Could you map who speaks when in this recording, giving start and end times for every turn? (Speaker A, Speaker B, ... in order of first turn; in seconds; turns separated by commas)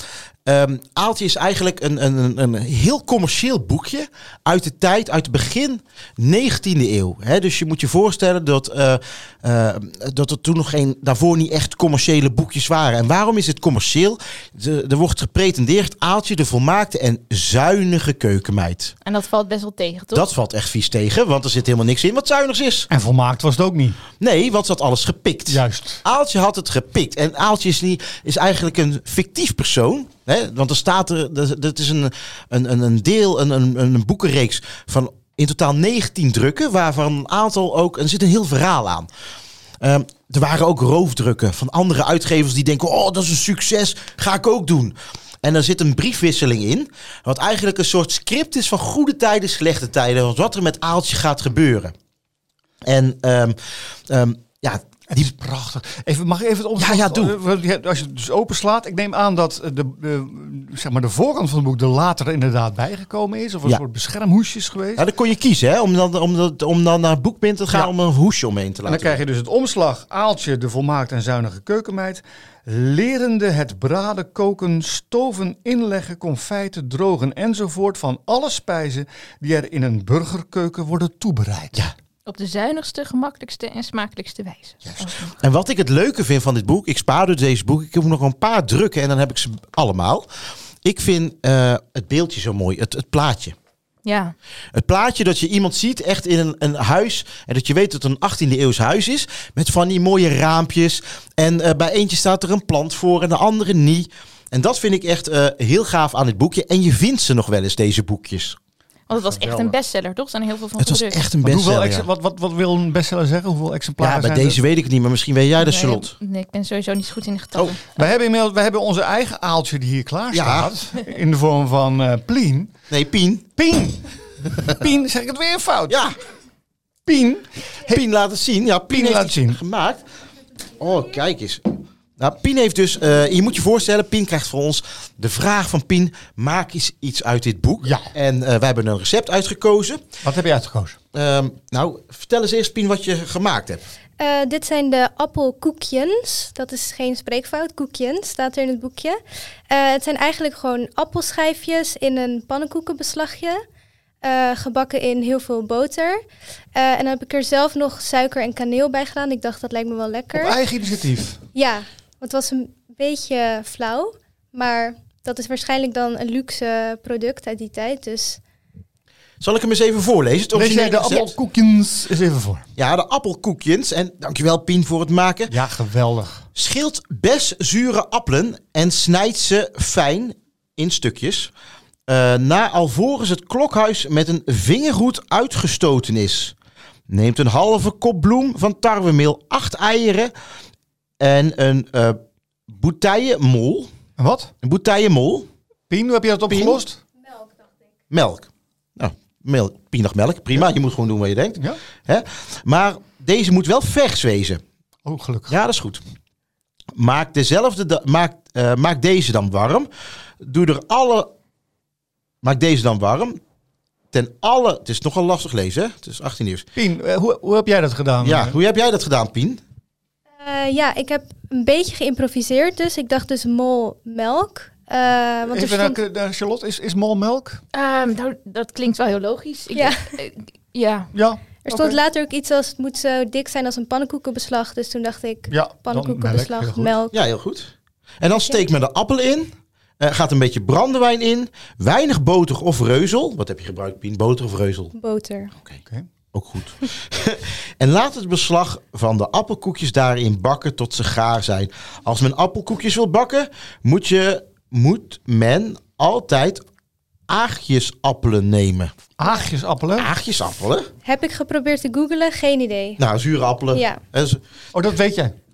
Speaker A: 0.5-18.9, Speaker B: 19.1-20.3, Speaker A: 20.1-22.9, Speaker C: 22.9-24.0, Speaker A: 24.2-39.1, Speaker C: 25.5-26.0, Speaker A: 39.8-52.0, Speaker A: 52.8-55.3, Speaker C: 55.1-65.1, Speaker A: 56.8-57.4, Speaker A: 65.0-69.2, Speaker C: 68.9-81.9, Speaker B: 82.3-85.4, Speaker A: 85.4-90.3, Speaker A: 90.8-93.6, Speaker B: 94.0-94.3, Speaker A: 94.7-108.6, Speaker B: 109.1-111.2, Speaker C: 109.2-109.7, Speaker A: 110.8-112.1, Speaker C: 111.4-114.6, Speaker A: 114.0-116.2, Speaker B: 115.6-118.0, Speaker C: 118.0-122.7, Speaker A: 120.3-120.7, Speaker A: 122.9-123.5, Speaker C: 123.6-126.0, Speaker A: 125.9-126.2, Speaker C: 127.1-128.0, Speaker A: 127.9-130.0, Speaker C: 128.9-129.6, Speaker A: 130.8-140.1, Speaker C: 137.8-138.1, Speaker C: 140.2-141.0, Speaker A: 141.1-143.9, Speaker D: 144.2-149.2, Speaker D: 149.7-153.6, Speaker D: 154.2-156.2, Speaker D: 156.8-160.6, Speaker C: 160.3-161.4, Speaker D: 161.6-168.4, Speaker A: 169.4-171.3, Speaker C: 170.5-172.7, Speaker A: 172.8-175.5, Speaker C: 175.5-176.5, Speaker A: 176.6-181.5, Speaker A: 182.1-186.6, Speaker A: 187.1-190.3, Speaker A: 191.2-193.9, Speaker C: 194.2-194.5, Speaker A: 194.6-195.5, Speaker C: 195.9-197.0, Speaker A: 196.5-196.8, Speaker A: 198.1-204.6, Speaker C: 205.1-205.6, Speaker A: 205.5-206.0, Speaker A: 206.9-209.9, Speaker A: 210.4-211.3, Speaker A: 212.4-213.4, Speaker A: 214.1-216.7, Speaker C: 216.8-218.6, Speaker A: 218.2-219.6, Speaker D: 220.4-226.0, Speaker C: 225.5-227.6, Speaker B: 227.7-231.1, Speaker C: 231.1-232.0, Speaker D: 231.7-237.2, Speaker C: 235.5-236.9, Speaker A: 237.1-244.9, Speaker D: 244.9-245.5, Speaker A: 246.3-256.6, Speaker A: 257.3-258.9, Speaker C: 259.2-260.1, Speaker A: 260.0-260.9, Speaker D: 261.1-263.0, Speaker A: 263.0-264.4, Speaker D: 263.7-264.0, Speaker C: 264.7-265.4